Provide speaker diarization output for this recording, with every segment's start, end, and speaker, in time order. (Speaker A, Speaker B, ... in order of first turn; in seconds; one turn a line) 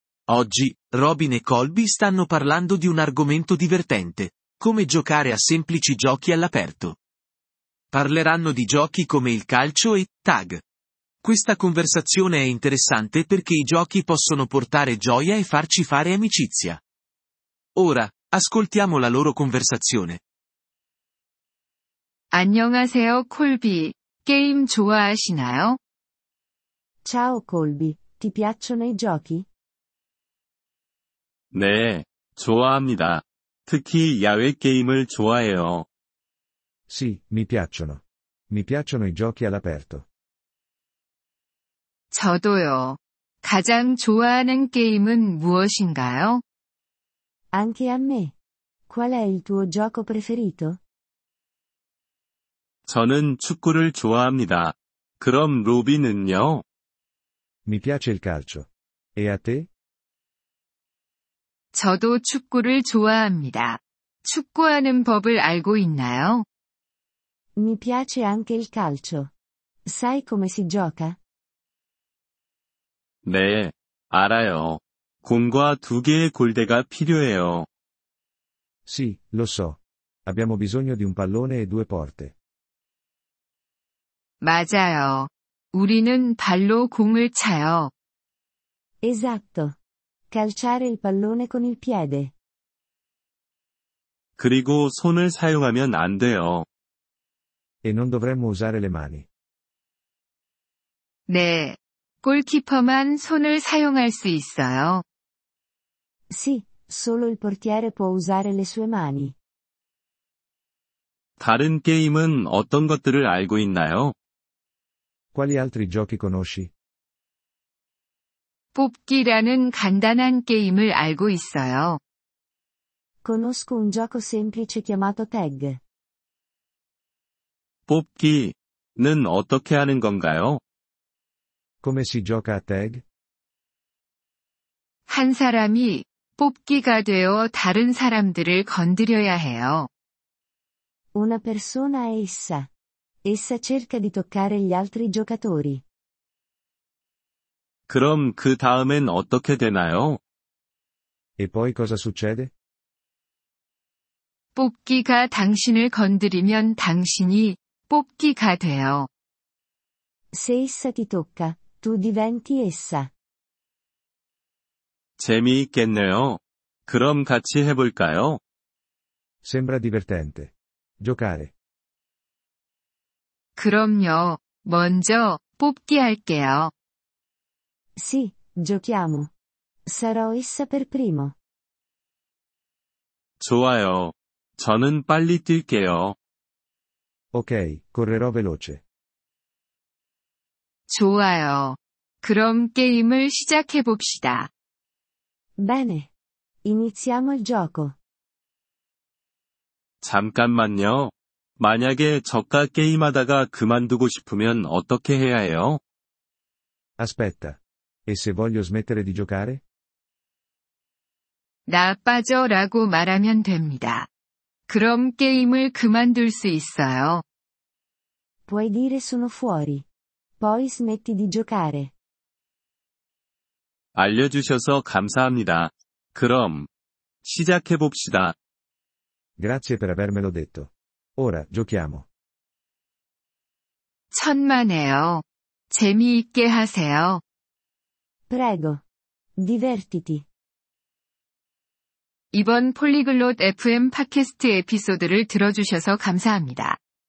Speaker A: 0.3-7.0
Speaker A: 7.9-10.6
Speaker A: 11.2-16.8
Speaker A: 17.8-20.2
Speaker B: 22.3-25.8
Speaker C: 27.0-29.5
Speaker D: 31.5-35.9
Speaker E: 36.9-40.0
Speaker B: 42.1-46.4
Speaker C: 47.5-48.3
Speaker C: 48.9-50.8
Speaker D: 52.9-56.6
Speaker E: 57.6-59.7
Speaker B: 61.7-66.5
Speaker C: 67.5-69.3
Speaker C: 69.8-71.2
Speaker D: 73.2-77.7
Speaker E: 78.8-82.3
Speaker B: 84.4-87.9
Speaker C: 89.0-89.8
Speaker C: 90.3-92.3
Speaker D: 94.4-96.7
Speaker E: 97.8-99.3
Speaker B: 101.3-105.0
Speaker C: 106.3-109.3
Speaker D: 111.4-114.1
Speaker E: 115.3-116.7
Speaker B: 118.7-122.0
Speaker C: 123.2-125.8
Speaker D: 127.9-130.6
Speaker E: 131.8-133.0
Speaker B: 135.1-139.9
Speaker C: 141.1-142.7
Speaker C: 143.2-145.8
Speaker D: 147.9-150.2
Speaker E: 151.4-152.5
Speaker B: 154.5-159.1
Speaker C: 160.3-163.1
Speaker D: 165.2-168.4
Speaker E: 169.4-171.5
Speaker B: 173.6-176.7
Speaker C: 177.9-179.3
Speaker C: 179.8-181.3
Speaker D: 183.4-186.2
Speaker E: 187.3-188.8
Speaker B: 190.9-194.5
Speaker C: 195.6-196.1
Speaker C: 196.6-197.9
Speaker D: 200.0-205.8
Speaker E: 207.0-209.6
Speaker B: 211.7-214.1
Speaker B: 214.7-217.2
Speaker C: 218.5-219.9
Speaker C: 220.4-221.9
Speaker D: 223.9-226.7
Speaker D: 227.2-228.3
Speaker E: 229.4-232.1
Speaker B: 234.1-237.2
Speaker C: 238.3-238.8
Speaker C: 239.4-240.2
Speaker B: 242.3-246.8